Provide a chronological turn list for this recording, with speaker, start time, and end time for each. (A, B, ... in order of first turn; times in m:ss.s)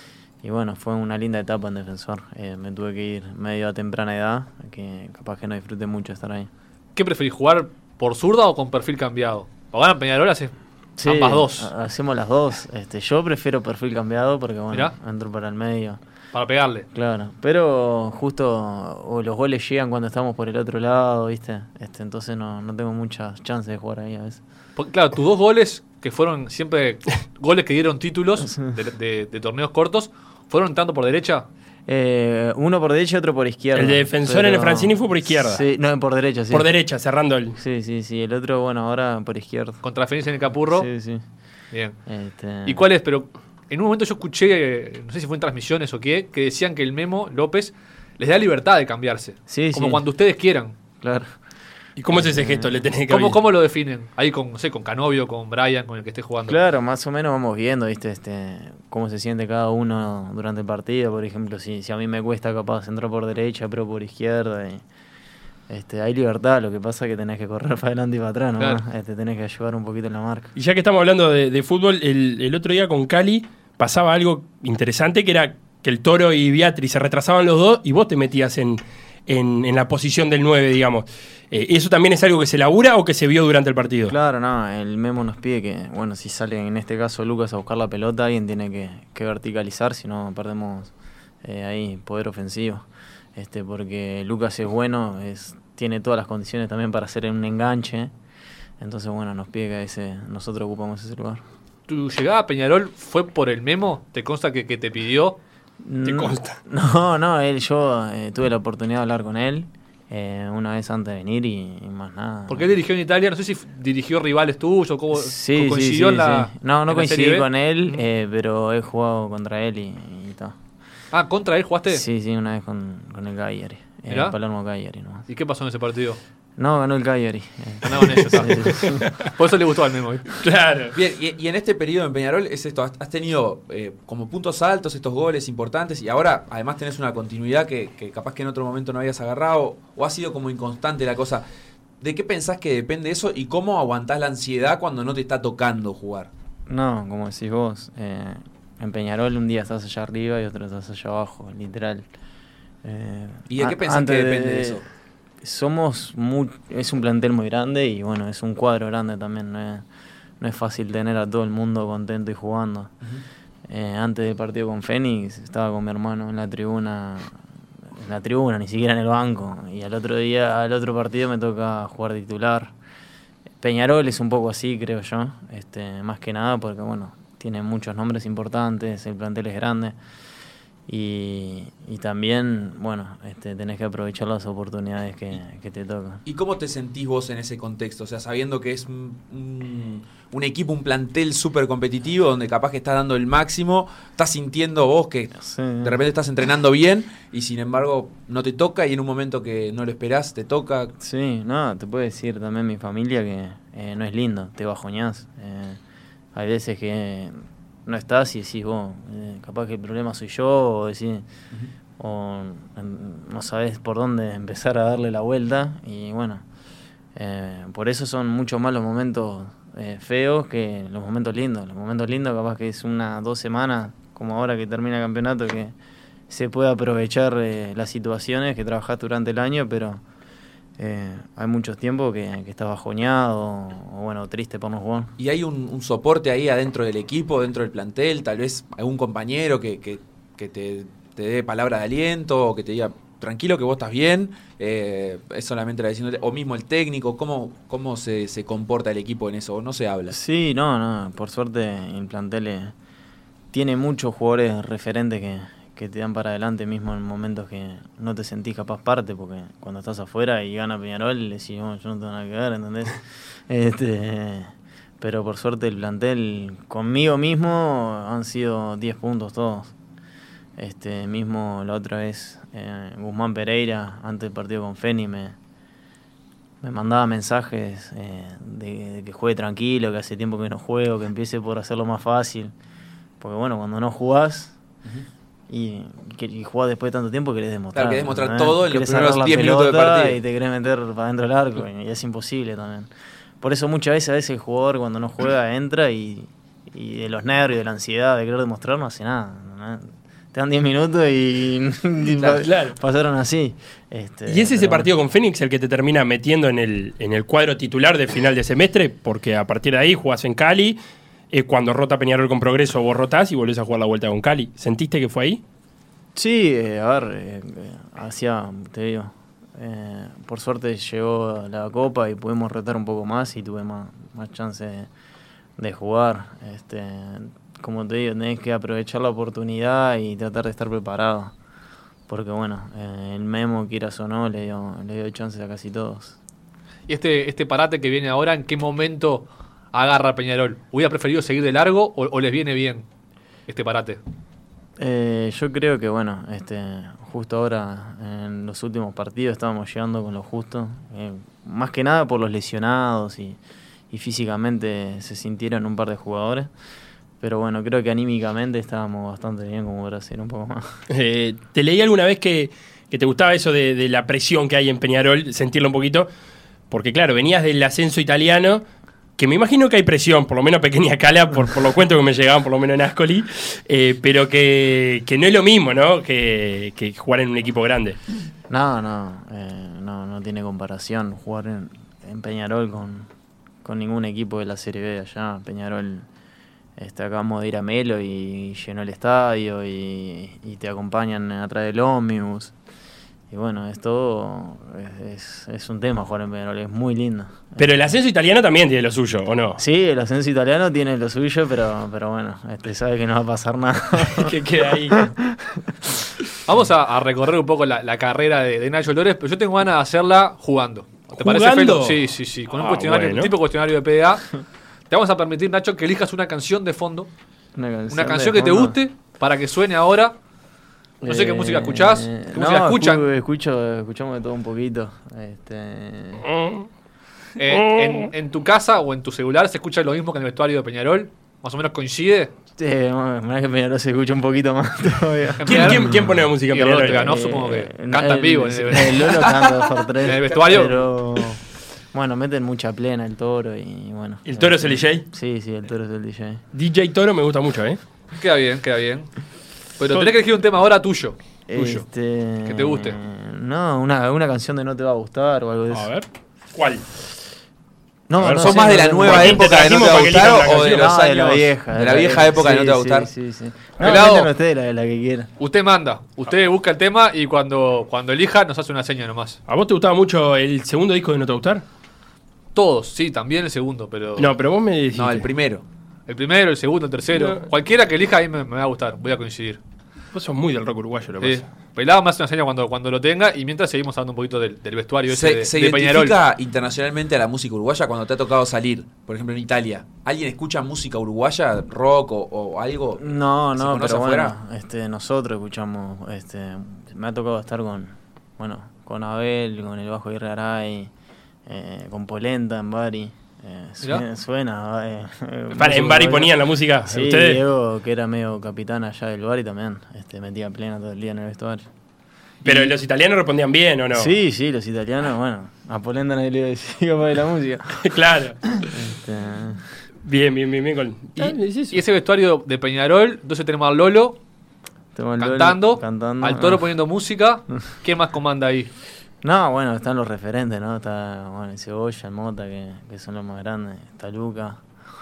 0:00.4-0:06.5 A
0:07.0-0:10.5 B
0:11.0-0:16.0 A
0:11.0-0:11.7 B
0:16.3-0:16.9 B
0:16.9-0:24.4 A
0:24.8-0:31.5 B
0:28.4-0:28.7 A
0:31.9-0:36.7 A
0:33.8-0:35.6 C
0:36.5-0:37.6 C
0:37.6-0:39.8 A
0:39.8-0:40.9 B
0:40.6-0:41.2 A
0:42.1-0:42.8 A
0:42.7-0:50.8 B
0:49.5-0:50.0 A
0:51.0-0:51.3 A
0:52.0-0:53.4 C
0:52.1-0:52.8 A
0:53.1-0:56.6 B
0:56.5-1:04.8 A
1:05.7-1:10.5 A
1:10.6-1:24.1 C
1:24.1-1:30.9 A
1:31.4-1:38.1 A
1:38.8-1:41.4 A
1:41.9-1:45.4 B
1:45.8-1:52.8 A
1:46.0-1:46.6 C
1:52.5-1:58.0 B
1:55.1-2:00.6 A
2:01.1-2:02.0 B
2:01.9-2:05.3 A
2:04.1-2:04.4 B
2:05.3-2:06.2 B
2:06.6-2:09.1 A
2:07.8-2:10.3 B
2:08.8-2:09.1 C
2:10.4-2:11.0 C
2:10.9-2:21.4 D
2:22.0-2:26.3 D
2:26.7-2:32.1 A
2:32.8-2:34.8 A
2:33.5-2:34.8 D
2:35.4-2:39.8 A
2:40.4-2:42.9 A
2:43.7-2:52.7 A
2:53.6-3:00.0 A
3:00.9-3:06.2 A
3:06.3-3:20.9 D
3:15.4-3:16.0 A
3:21.0-3:25.8 A
3:26.3-3:27.4 A
3:27.9-3:31.3 A
3:32.0-3:36.4 A
3:37.2-3:45.8 A
3:46.3-3:50.0 A
3:50.8-3:55.1 A
3:55.2-4:10.2 D
4:10.1-4:12.7 A
4:13.5-4:29.7 A
4:30.6-4:35.4 A
4:36.6-4:42.5 A
4:43.2-4:44.6 A
4:45.5-4:52.9 A
4:47.7-4:50.2 D
4:53.4-5:04.9 A
5:02.4-5:02.8 C
5:04.3-5:10.8 C
5:11.3-5:15.4 C
5:16.2-5:24.9 A
5:25.6-5:31.3 A
5:32.1-5:36.2 A
5:36.9-5:42.9 B
5:43.5-5:44.0 B
5:44.8-5:53.4 A
5:53.9-5:56.5 A
5:57.2-6:00.8 A
6:00.9-6:06.1 C
6:06.7-6:08.6 C
6:09.2-6:18.0 C
6:18.5-6:23.1 A
6:23.6-6:26.1 A
6:26.8-6:32.5 A
6:33.3-6:37.7 A
6:37.6-6:39.6 C
6:39.6-6:44.4 A
6:44.1-6:45.1 C
6:44.9-6:45.7 A
6:46.5-6:54.3 B
6:51.1-6:53.3 C
6:54.9-6:57.1 B
6:57.6-6:58.8 A
6:57.9-7:00.2 B
7:01.0-7:06.2 A
7:01.0-7:03.1 B
7:06.2-7:06.7 C
7:07.4-7:12.3 B
7:07.5-7:08.1 C
7:12.6-7:16.3 A
7:15.4-7:19.3 B
7:15.4-7:17.1 C
7:16.9-7:21.4 A
7:19.2-7:20.8 D
7:20.0-7:20.8 B
7:21.9-7:26.4 A
7:24.3-7:25.0 C
7:26.5-7:27.8 C
7:28.2-7:29.1 B
7:29.8-7:31.8 B
7:31.5-7:35.9 A
7:32.4-7:33.0 B
7:35.7-7:36.8 C
7:38.1-7:39.7 A
7:38.2-7:41.0 C
7:38.4-7:43.1 D
7:40.6-7:45.3 A
7:43.8-7:44.3 B
7:45.4-7:49.4 B
7:49.5-7:51.6 C
7:52.6-7:54.3 B
7:54.2-7:55.3 C
7:54.9-7:55.6 D
7:56.1-7:59.6 B
7:57.1-7:57.5 C
8:00.1-8:01.4 C
8:01.2-8:06.2 B
8:05.1-8:14.4 D
8:13.0-8:20.9 A
8:21.5-8:31.7 A
8:25.5-8:27.4 C
8:32.4-8:34.1 C
8:32.4-8:32.7 A
8:33.9-8:37.8 A
8:37.8-8:38.7 C
8:38.6-8:39.6 A
8:40.0-8:41.8 C
8:41.2-8:44.2 B
8:45.0-8:46.7 A
8:45.2-8:48.7 B
8:49.2-8:54.6 A